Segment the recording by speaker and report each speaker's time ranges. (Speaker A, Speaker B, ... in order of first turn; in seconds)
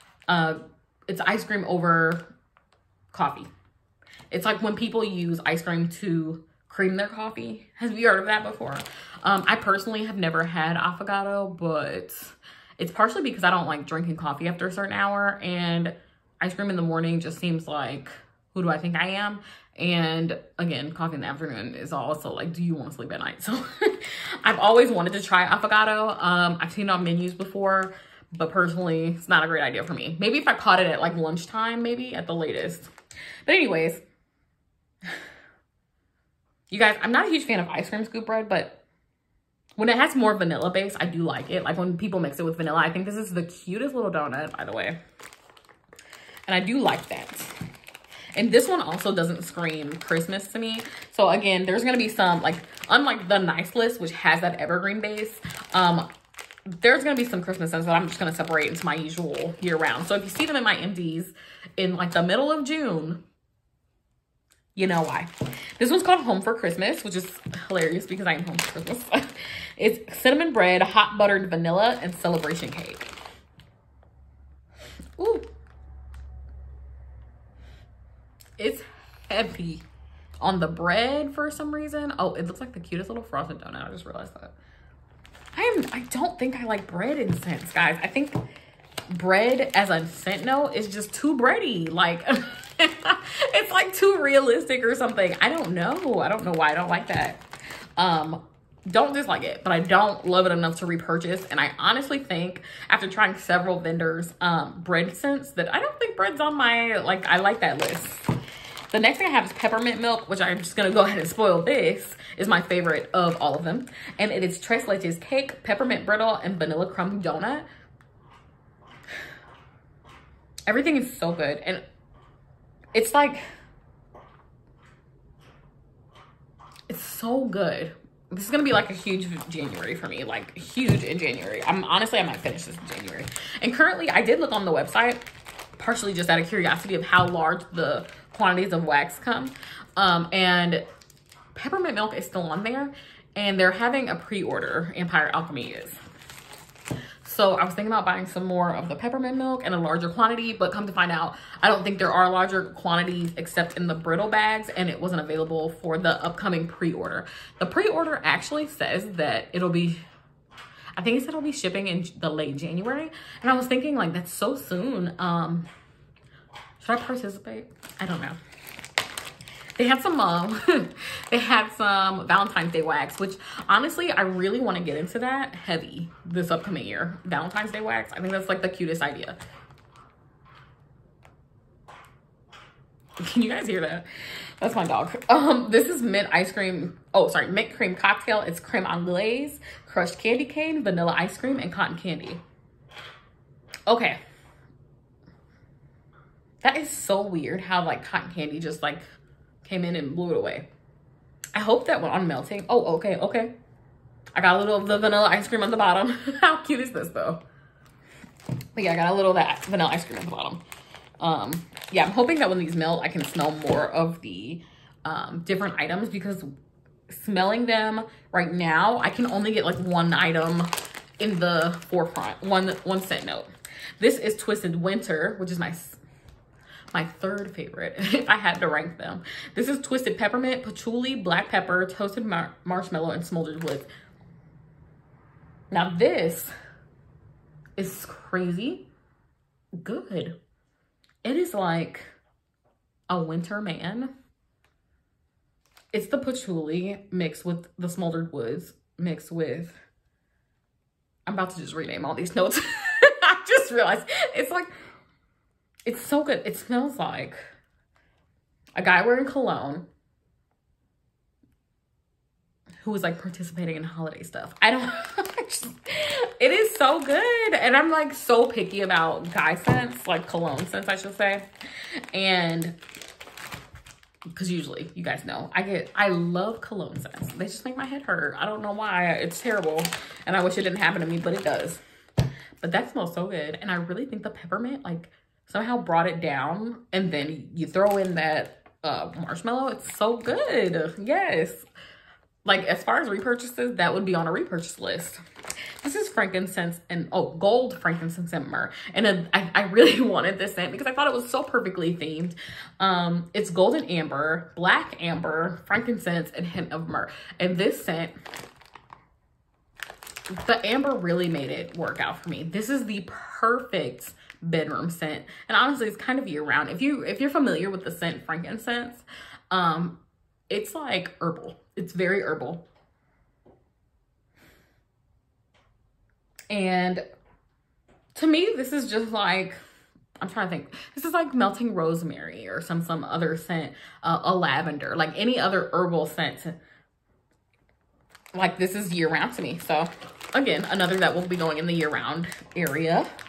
Speaker A: 0.3-2.3, 3.1-3.5, 4.3-32.9, 33.4-34.0, 36.7-38.8, 39.8-45.0, 46.5-47.5, 48.3-56.1, 56.8-63.2, 64.7-73.1, 75.2-75.5, 78.6-79.8, 80.4-84.5, 85.5-88.4, 89.1-97.4, 98.0-108.2, 108.9-117.7, 120.7-121.8, 122.9-123.4, 126.9-135.2, 135.8-140.8, 141.5-146.0, 147.2-160.0, 160.9-165.7, 166.8-168.4, 169.8-179.4, 183.2-184.1, 184.6-192.4, 193.9-194.2, 196.6-199.0, 199.6-200.7, 201.5-203.5, 204.3-207.4, 208.7-210.6, 211.2-216.5, 217.1-226.0, 226.9-233.9, 235.7-236.5, 237.8-238.9, 239.8-240.4, 241.2-242.1, 243.1-244.1, 245.9-249.8, 251.2-254.7, 255.8-257.4, 258.7-259.9, 262.8-271.4, 272.1-272.8, 274.3-281.8, 282.6-291.7, 292.4-295.2, 295.8-308.1, 310.3-322.6, 326.5-327.0, 328.1-329.6, 330.2-336.6, 338.3-343.1